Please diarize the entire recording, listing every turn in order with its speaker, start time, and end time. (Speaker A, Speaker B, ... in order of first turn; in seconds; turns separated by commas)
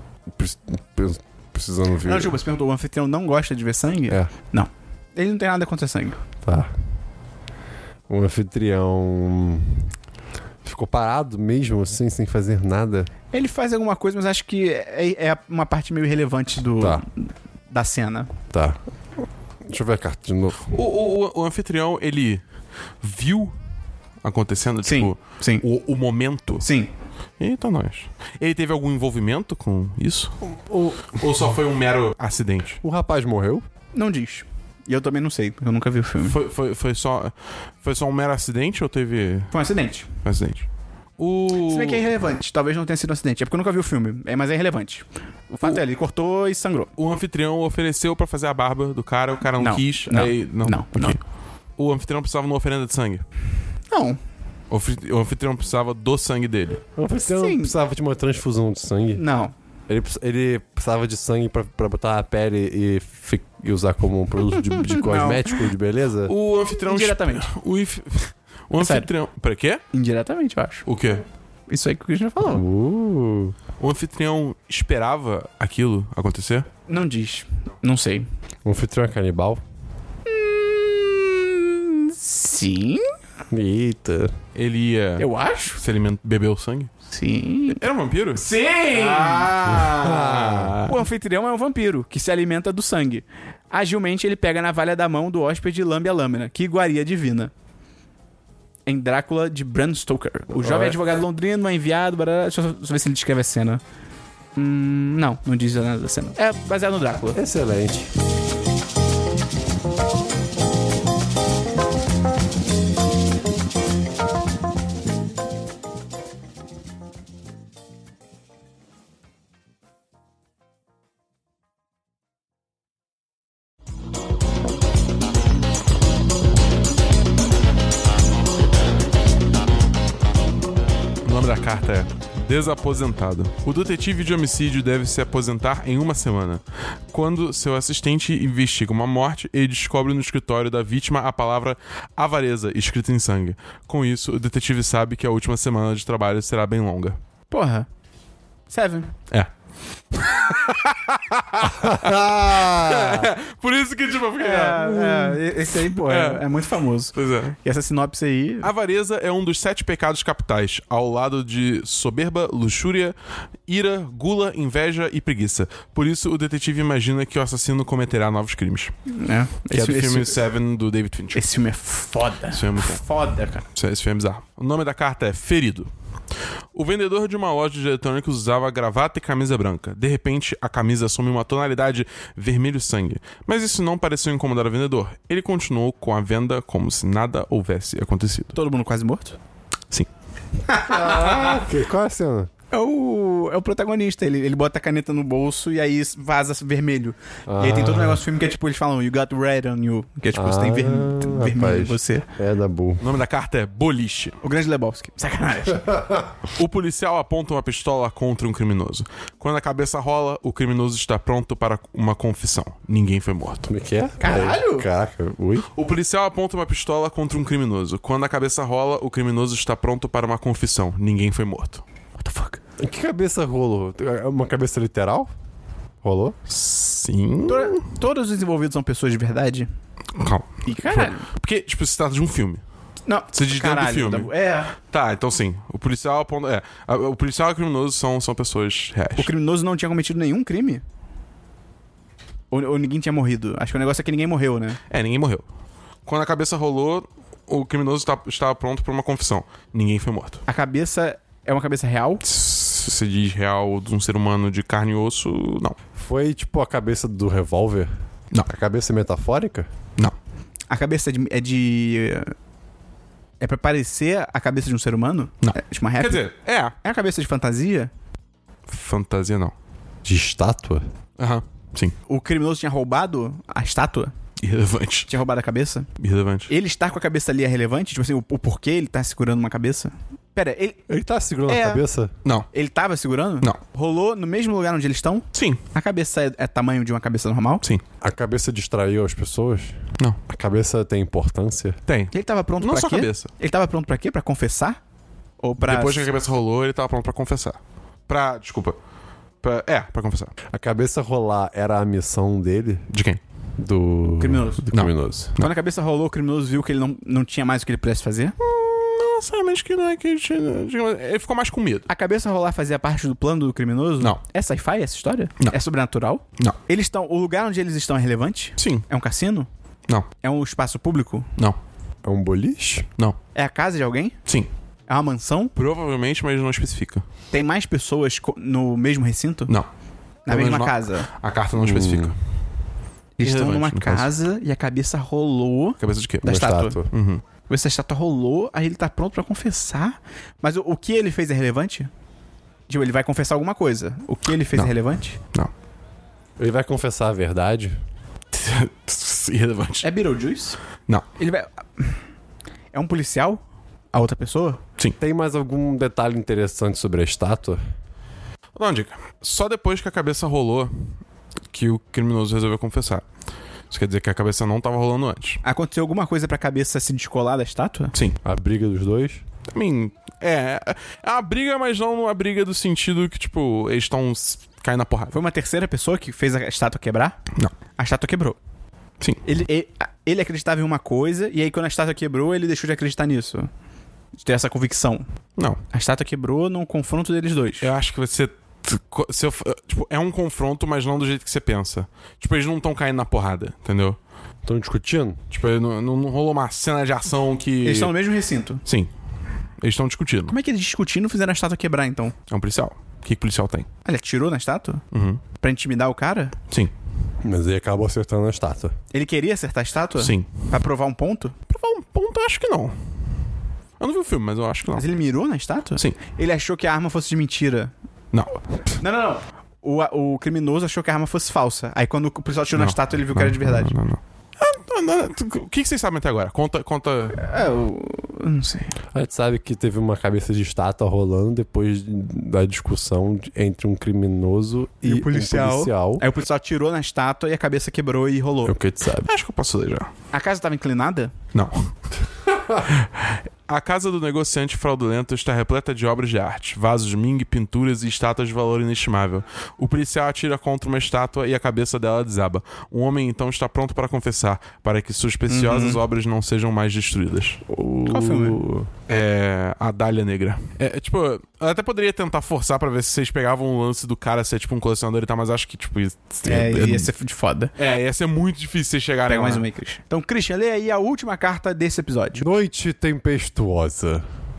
Speaker A: 0.3-2.4, Speaker B: 2.0-6.2, Speaker A: 6.4-6.7, Speaker A: 8.1-9.9, Speaker A: 10.6-13.1, Speaker B: 13.3-18.3, Speaker A: 18.5-18.8, Speaker A: 19.6-20.7, Speaker C: 20.7-22.4, Speaker C: 23.0-23.5, Speaker C: 24.2-26.6, Speaker B: 24.8-25.6, Speaker B: 26.6-26.9, Speaker C: 27.4-30.4, Speaker A: 30.6-31.1, Speaker C: 31.1-32.8, Speaker A: 32.8-33.6, Speaker B: 33.9-36.3, Speaker C: 36.2-39.5, Speaker B: 39.5-40.1, Speaker C: 40.2-40.7, Speaker C: 41.2-42.0, Speaker B: 41.6-46.9, Speaker C: 47.0-51.2, Speaker B: 49.6-51.2, Speaker C: 51.8-53.2, Speaker B: 53.9-54.2, Speaker C: 54.7-56.8, Speaker A: 57.0-59.2, Speaker B: 57.2-57.7, Speaker B: 59.1-59.5, Speaker A: 59.9-66.3, Speaker B: 64.7-65.6, Speaker C: 66.3-69.8, Speaker B: 66.8-67.5, Speaker B: 68.8-69.1, Speaker B: 69.9-70.8, Speaker C: 70.8-71.2, Speaker B: 71.7-72.6, Speaker A: 72.5-73.5, Speaker C: 73.8-76.7, Speaker B: 76.9-78.2, Speaker A: 78.6-79.6, Speaker B: 80.2-83.1, Speaker A: 83.5-84.3, Speaker C: 84.5-86.9, Speaker B: 85.2-85.8, Speaker B: 87.1-87.8, Speaker C: 87.7-91.0, Speaker B: 88.3-89.5, Speaker A: 89.7-90.8, Speaker B: 90.8-97.5, Speaker B: 98.8-103.8, Speaker B: 104.5-107.4, Speaker A: 107.3-108.1, Speaker C: 131.2-147.2, Speaker B: 147.5-147.9, Speaker B: 148.7-149.2, Speaker C: 150.1-156.5, Speaker A: 151.7-153.3, Speaker B: 154.4-158.7, Speaker C: 157.1-157.6, Speaker C: 158.6-163.1, Speaker C: 163.7-168.9, Speaker B: 169.1-170.4, Speaker C: 169.7-171.4, Speaker B: 171.3-173.6, Speaker C: 172.5-173.0, Speaker C: 173.7-175.9, Speaker C: 176.7-188.6, Speaker B: 188.5-189.4, Speaker B: 190.6-191.6, Speaker A: 190.8-192.5, Speaker B: 192.7-202.3, Speaker A: 197.5-198.2, Speaker A: 200.3-203.0, Speaker C: 203.0-204.4, Speaker B: 204.4-205.9, Speaker A: 205.9-206.3, Speaker C: 206.5-213.7, Speaker A: 213.7-215.7, Speaker B: 214.2-214.9, Speaker C: 215.7-221.8, Speaker B: 222.2-222.6, Speaker A: 222.8-225.3, Speaker A: 226.0-226.3, Speaker C: 226.5-227.8, Speaker B: 227.5-229.7, Speaker C: 230.2-232.6, Speaker B: 230.6-231.2, Speaker B: 233.1-234.7, Speaker C: 233.3-239.3, Speaker B: 239.2-240.8, Speaker B: 242.5-244.8, Speaker C: 244.9-245.4, Speaker C: 246.0-250.4, Speaker B: 250.5-252.2, Speaker C: 252.2-255.8, Speaker A: 255.9-257.9, Speaker A: 258.4-259.7, Speaker B: 260.7-262.3, Speaker B: 263.4-266.3, Speaker C: 265.4-266.7, Speaker B: 266.8-267.9, Speaker C: 268.7-269.5, Speaker A: 270.0-270.8, Speaker C: 271.2-271.9, Speaker B: 272.1-274.1, Speaker C: 274.4-275.1, Speaker B: 275.1-275.9, Speaker C: 276.0-276.5, Speaker B: 276.5-280.8, Speaker A: 280.9-282.1, Speaker B: 281.4-281.8, Speaker B: 282.5-287.6, Speaker C: 285.3-285.6, Speaker A: 288.0-291.8, Speaker C: 291.9-293.3, Speaker B: 292.1-294.8, Speaker B: 295.4-296.1, Speaker C: 295.6-298.8, Speaker C: 299.4-300.3, Speaker A: 300.5-302.9, Speaker C: 302.9-303.2, Speaker A: 303.6-305.3, Speaker B: 304.1-304.7, Speaker C: 304.7-305.5, Speaker B: 305.4-308.3, Speaker C: 308.4-311.9, Speaker B: 311.9-319.5, Speaker C: 318.6-318.8, Speaker B: 320.2-321.3, Speaker A: 322.0-322.9, Speaker B: 323.3-324.2, Speaker B: 324.9-325.5, Speaker C: 325.6-327.0, Speaker B: 327.3-329.5, Speaker B: 330.3-331.1, Speaker C: 330.3-332.1, Speaker A: 331.6-332.1, Speaker B: 333.2-336.8, Speaker C: 333.2-334.1, Speaker C: 335.8-337.2, Speaker A: 336.3-336.9, Speaker B: 337.5-341.9, Speaker B: 342.7-345.2, Speaker A: 346.4-347.8, Speaker C: 348.3-349.9, Speaker B: 349.8-350.6, Speaker B: 351.2-352.0, Speaker B: 352.7-353.4, Speaker B: 353.9-354.6, Speaker A: 355.0-357.6, Speaker C: 358.5-360.9, Speaker C: 361.5-363.0, Speaker C: 363.7-365.4, Speaker B: 365.4-367.9, Speaker A: 368.2-369.2, Speaker C: 369.5-375.1, Speaker B: 375.1-377.2, Speaker B: 377.8-378.4, Speaker B: 379.2-383.5, Speaker B: 384.2-385.1, Speaker B: 385.7-387.7, Speaker C: 387.6-394.0, Speaker A: 394.4-395.2, Speaker C: 395.3-397.9, Speaker B: 397.6-398.6, Speaker C: 399.6-400.3, Speaker B: 400.3-402.1, Speaker C: 402.3-403.7, Speaker B: 403.8-404.8, Speaker C: 404.9-405.2, Speaker B: 405.4-406.4, Speaker A: 407.2-408.7, Speaker B: 408.9-411.4, Speaker C: 410.0-410.4, Speaker C: 411.5-412.8, Speaker C: 413.8-414.9, Speaker B: 414.7-417.7, Speaker B: 418.8-423.7, Speaker C: 422.5-427.2, Speaker B: 427.1-428.8, Speaker A: 428.9-436.0, Speaker B: 434.8-438.5, Speaker A: 438.4-439.1, Speaker C: 439.1-439.9, Speaker B: 440.1-441.1, Speaker C: 441.3-441.7, Speaker C: 442.6-457.4, Speaker B: 455.3-455.8, Speaker A: 457.5-458.7, Speaker B: 457.9-458.4, Speaker C: 458.9-466.9, Speaker B: 466.2-467.5, Speaker C: 467.6-469.4, Speaker B: 469.1-472.2, Speaker A: 472.2-474.0